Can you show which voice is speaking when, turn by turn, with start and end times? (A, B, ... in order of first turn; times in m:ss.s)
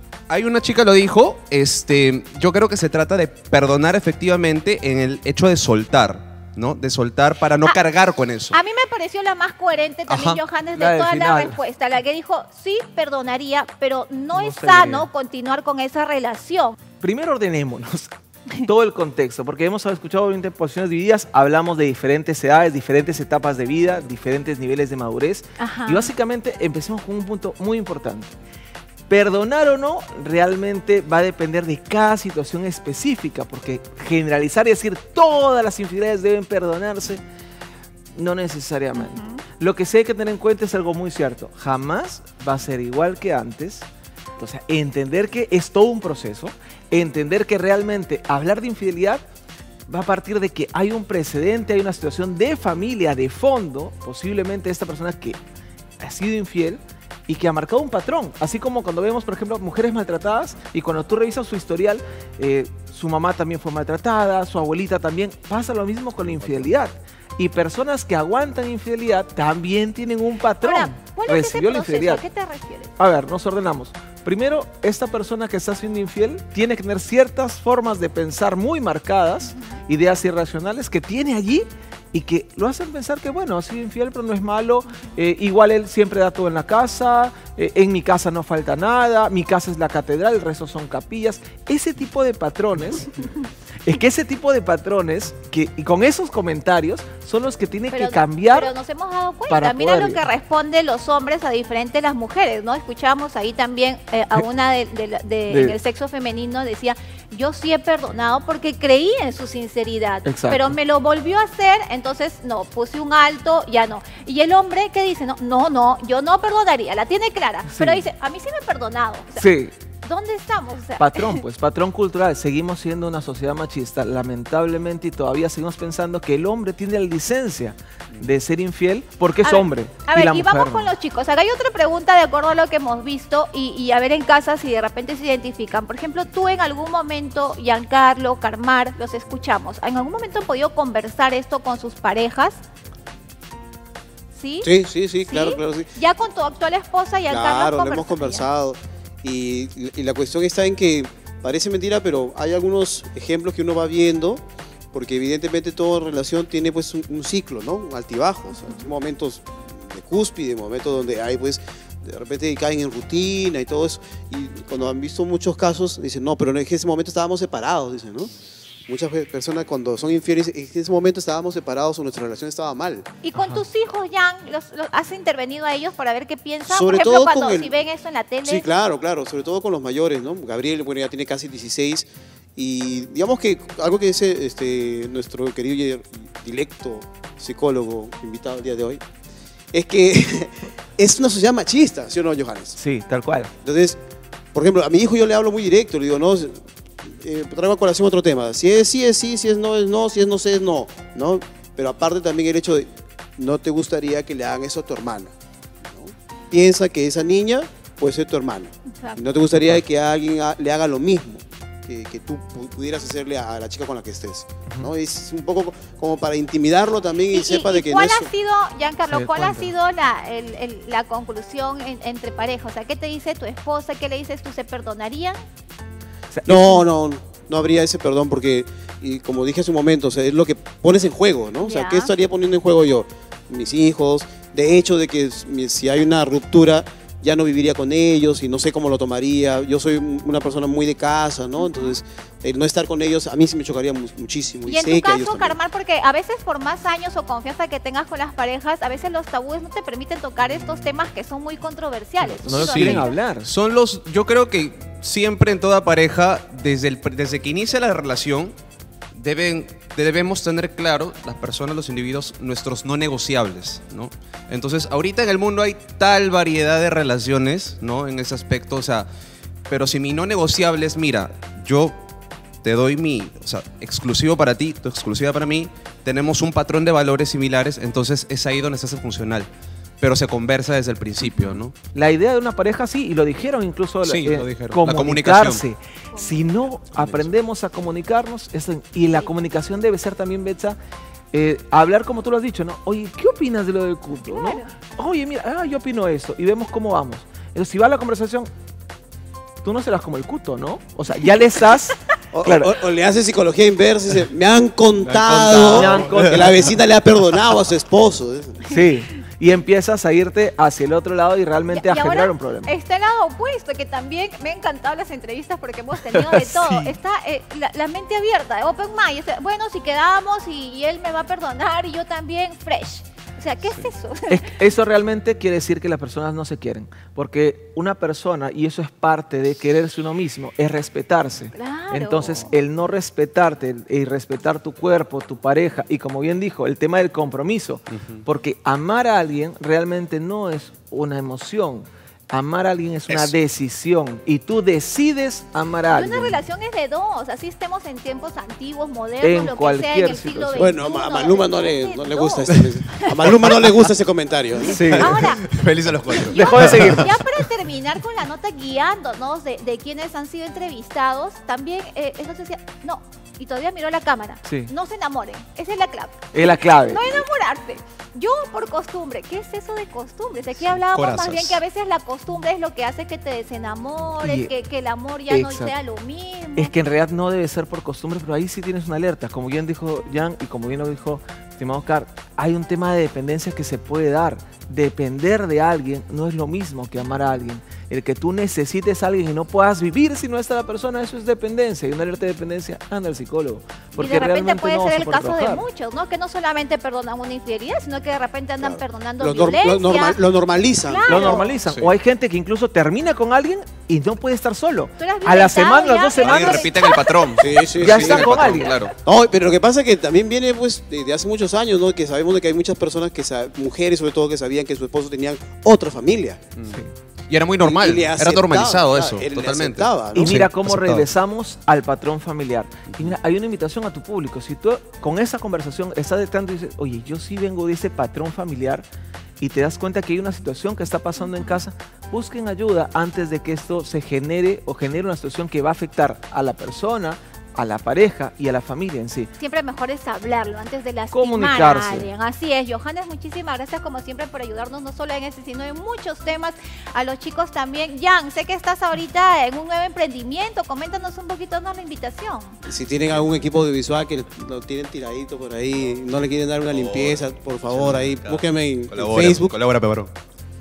0:00.3-0:08.6 A
0:08.5-0:16.8 B
0:10.1-0:10.4 A
0:10.8-0:11.6 C
0:14.3-0:15.1 C
0:17.0-0:18.1 C
0:18.6-0:28.3 C
0:25.6-0:26.1 B
0:29.1-0:37.2 C
0:38.1-0:43.8 C
0:38.9-0:39.4 B
0:44.4-0:49.2 C
0:49.9-0:55.4 C
0:56.0-1:12.2 C
1:10.6-1:12.9 B
1:13.0-1:33.1 C
1:33.8-1:38.7 C
1:37.9-1:59.4 B
1:39.5-1:40.2 C
1:45.5-1:45.8 C
1:50.2-1:50.7 C
1:57.7-1:58.0 C
1:59.4-1:59.7 C
2:00.0-2:01.4 B
2:01.0-2:10.9 C
2:09.4-2:22.6 B
2:24.3-2:24.7 B
2:24.6-2:25.9 D
2:25.3-2:28.4 B
2:27.3-2:34.4 D
2:34.9-2:48.3 D
2:48.9-2:53.0 D
2:53.2-2:58.6 B
2:53.4-2:53.6 C
2:56.7-2:57.7 D
2:58.4-3:09.0 D
3:09.7-3:12.8 D
3:12.8-3:13.5 C
3:13.6-3:14.0 D
3:14.5-3:25.3 D
3:25.9-3:38.3 D
3:28.9-3:29.3 B
3:37.3-3:45.4 B
3:39.0-3:39.7 C
3:46.3-3:46.8 C
3:46.4-4:05.6 D
3:51.6-3:52.1 B
4:01.6-4:02.0 B
4:04.6-4:13.1 B
4:12.2-4:13.5 C
4:12.4-4:18.5 A
4:19.2-4:29.1 A
4:29.7-4:31.9 A
4:32.6-4:39.5 A
4:40.0-4:41.7 A
4:41.9-4:50.8 C
4:44.0-4:45.6 A
4:46.1-4:46.7 B
4:51.3-4:58.5 C
4:54.2-4:54.7 B
4:59.6-5:02.8 C
5:02.3-5:08.7 D
5:05.0-5:06.4 A
5:05.4-5:06.8 C
5:08.7-5:12.7 C
5:11.7-5:24.5 B
5:16.1-5:17.0 C
5:24.3-5:46.4 C
5:31.5-5:32.5 B
5:37.9-5:38.2 A
5:45.9-5:53.7 B
5:49.2-5:50.7 C
5:50.6-5:55.2 D
5:54.6-5:55.2 C
5:54.9-5:55.4 B
5:54.9-5:57.1 A
5:56.2-6:16.7 B
5:56.3-5:57.2 C
6:04.4-6:04.7 C
6:06.3-6:07.2 C
6:10.8-6:11.6 A
6:14.2-6:14.5 C
6:15.3-6:15.7 C
6:16.6-6:35.6 C
6:34.0-6:40.2 B
6:38.6-6:41.4 D
6:40.8-6:41.5 B
6:41.0-6:46.9 C
6:41.7-6:41.9 A
6:45.0-6:47.2 B
6:46.2-6:48.9 A
6:47.4-6:56.5 D
6:47.8-6:48.9 C
6:56.6-7:01.1 A
6:56.7-6:56.9 C
6:57.6-7:00.4 D
7:00.1-7:08.8 C
7:09.4-7:19.3 C
7:19.4-7:32.6 B
7:21.1-7:22.1 C
7:32.6-7:39.6 D
7:36.7-7:40.1 A